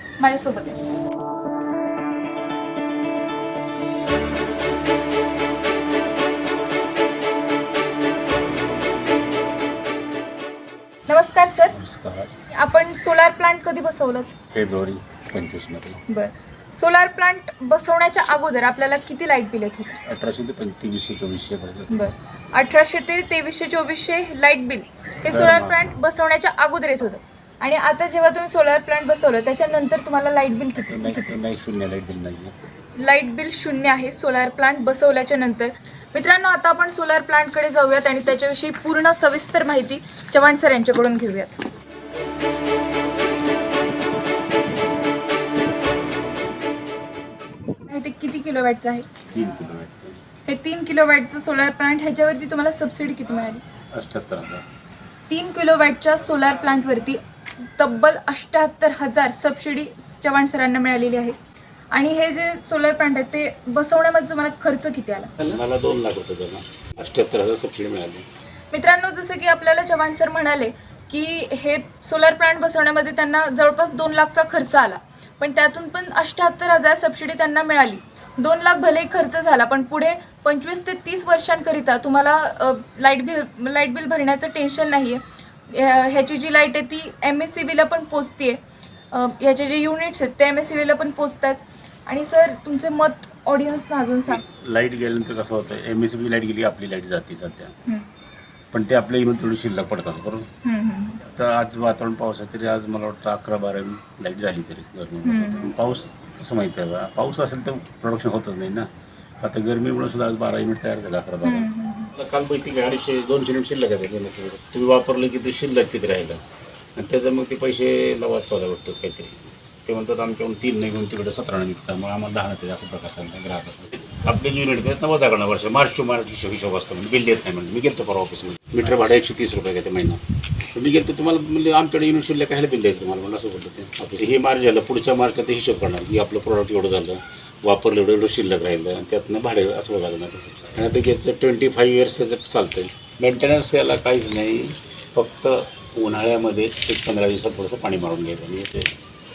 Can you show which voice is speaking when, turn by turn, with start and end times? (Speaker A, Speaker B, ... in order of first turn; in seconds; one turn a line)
Speaker A: 0.2-0.8
Speaker A: 11.1-11.8
Speaker B: 11.7-12.3
Speaker A: 12.5-14.3
Speaker B: 14.5-16.0
Speaker A: 16.1-20.0
Speaker B: 20.0-22.1
Speaker A: 21.9-31.4
Speaker B: 25.2-25.9
Speaker B: 30.8-32.5
Speaker A: 33.0-41.6
Speaker A: 47.9-49.1
Speaker B: 49.3-50.2
Speaker A: 50.4-53.6
Speaker B: 53.9-54.6
Speaker A: 55.3-61.4
Speaker A: 61.9-65.3
Speaker B: 65.4-68.2
Speaker A: 68.7-88.6
Speaker A: 89.1-94.4
Speaker B: 94.3-97.7
Speaker B: 98.7-100.5
Speaker A: 100.6-101.2
Speaker B: 101.2-108.9
Speaker A: 105.2-105.8
Speaker B: 109.4-116.4
Speaker A: 111.4-112.1
Speaker B: 117.0-130.2
Speaker B: 130.7-148.9